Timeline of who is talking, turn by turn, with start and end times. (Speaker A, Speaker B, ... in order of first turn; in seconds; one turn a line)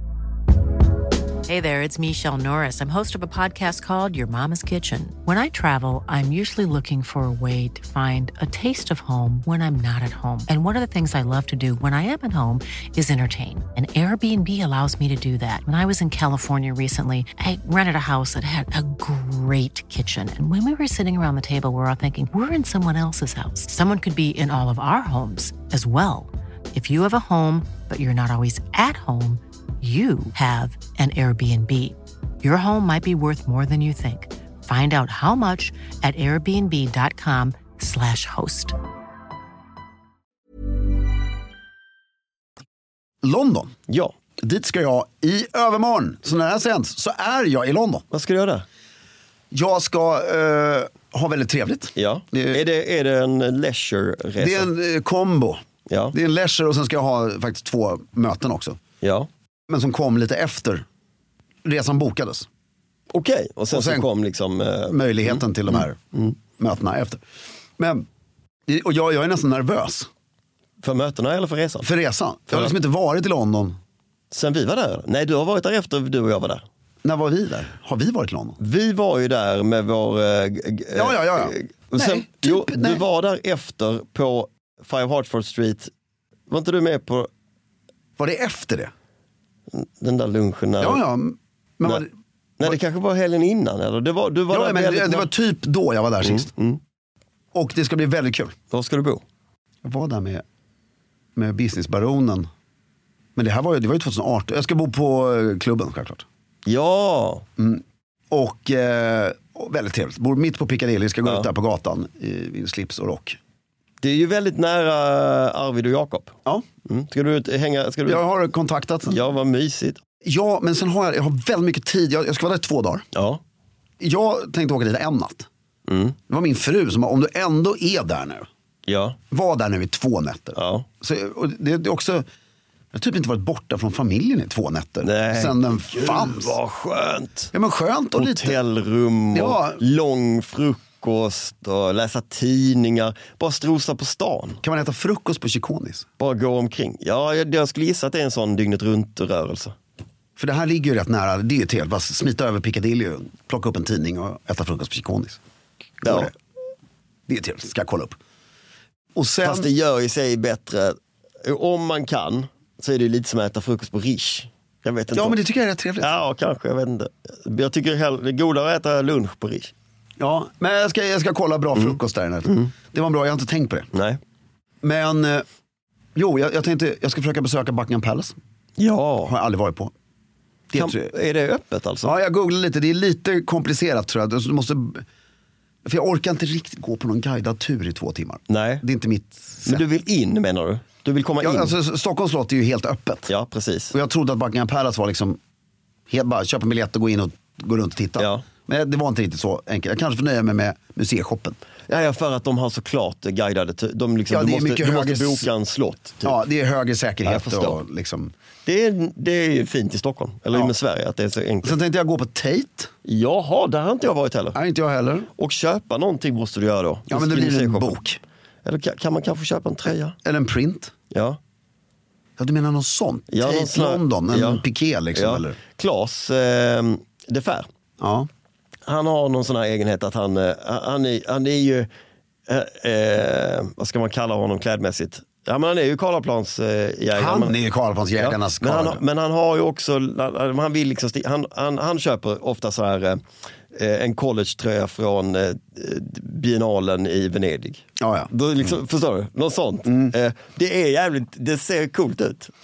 Speaker A: 1.4-38.8
Speaker B: 43.2-43.7
Speaker C: 43.9-44.1
Speaker B: 44.4-48.0
Speaker C: 48.1-48.6
Speaker B: 49.5-52.6
Speaker C: 52.0-54.7
Speaker B: 54.4-58.8
Speaker C: 55.9-56.1
Speaker C: 59.0-59.3
Speaker B: 59.7-60.8
Speaker B: 61.6-62.5
Speaker C: 63.1-66.3
Speaker B: 63.7-64.1
Speaker B: 64.9-66.0
Speaker B: 66.5-67.2
Speaker B: 67.8-68.0
Speaker B: 68.7-70.1
Speaker C: 70.8-71.9
Speaker B: 71.8-73.8
Speaker C: 74.3-76.6
Speaker B: 77.0-78.6
Speaker C: 78.6-85.9
Speaker B: 80.9-83.0
Speaker C: 86.5-87.3
Speaker B: 88.2-88.9
Speaker C: 89.7-91.0
Speaker B: 90.8-92.1
Speaker C: 92.6-95.3
Speaker B: 94.5-96.5
Speaker C: 96.2-96.8
Speaker B: 97.5-98.5
Speaker C: 98.7-99.2
Speaker B: 99.8-100.4
Speaker B: 101.3-102.5
Speaker B: 103.3-106.2
Speaker C: 106.7-107.4
Speaker B: 107.6-113.4
Speaker C: 114.0-118.2
Speaker B: 118.0-119.2
Speaker C: 119.1-120.0
Speaker B: 120.2-123.0
Speaker C: 123.1-123.4
Speaker B: 124.0-125.5
Speaker C: 125.9-126.2
Speaker B: 126.3-128.5
Speaker C: 128.9-129.2
Speaker B: 129.3-132.2
Speaker C: 130.6-130.8
Speaker B: 132.9-136.6
Speaker C: 135.0-137.5
Speaker B: 137.5-138.6
Speaker C: 138.2-144.6
Speaker B: 139.3-139.8
Speaker B: 144.6-146.1
Speaker C: 146.2-149.8
Speaker B: 150.4-155.4
Speaker B: 156.0-156.3
Speaker C: 156.0-156.3
Speaker B: 157.3-158.2
Speaker B: 159.2-159.7
Speaker C: 159.4-165.4
Speaker B: 165.1-166.1
Speaker C: 166.0-169.7
Speaker B: 170.2-173.9
Speaker C: 173.9-174.2
Speaker B: 174.8-175.4
Speaker B: 176.1-178.3
Speaker C: 178.8-179.3
Speaker B: 179.2-179.9
Speaker B: 180.7-181.1
Speaker C: 180.8-182.1
Speaker B: 182.0-185.0
Speaker B: 185.8-189.8
Speaker C: 188.5-188.8
Speaker C: 189.7-191.7
Speaker B: 191.4-193.3
Speaker C: 193.3-193.9
Speaker B: 193.9-195.4
Speaker B: 196.1-201.6
Speaker C: 198.2-198.4
Speaker C: 201.9-206.4
Speaker B: 204.3-205.5
Speaker B: 206.2-208.3
Speaker C: 207.2-207.8
Speaker C: 208.7-211.8
Speaker B: 211.6-212.9
Speaker C: 213.0-214.6
Speaker B: 214.5-215.3
Speaker C: 215.4-218.0
Speaker B: 217.1-218.2
Speaker C: 218.6-220.2
Speaker B: 220.2-220.9
Speaker C: 221.1-221.4
Speaker B: 222.4-225.6
Speaker C: 223.3-224.6
Speaker C: 225.1-227.7
Speaker B: 228.0-228.3
Speaker C: 228.8-231.9
Speaker C: 232.5-237.5
Speaker B: 237.1-239.0
Speaker C: 238.2-243.2
Speaker C: 243.7-252.5
Speaker B: 248.0-248.3
Speaker B: 249.9-250.1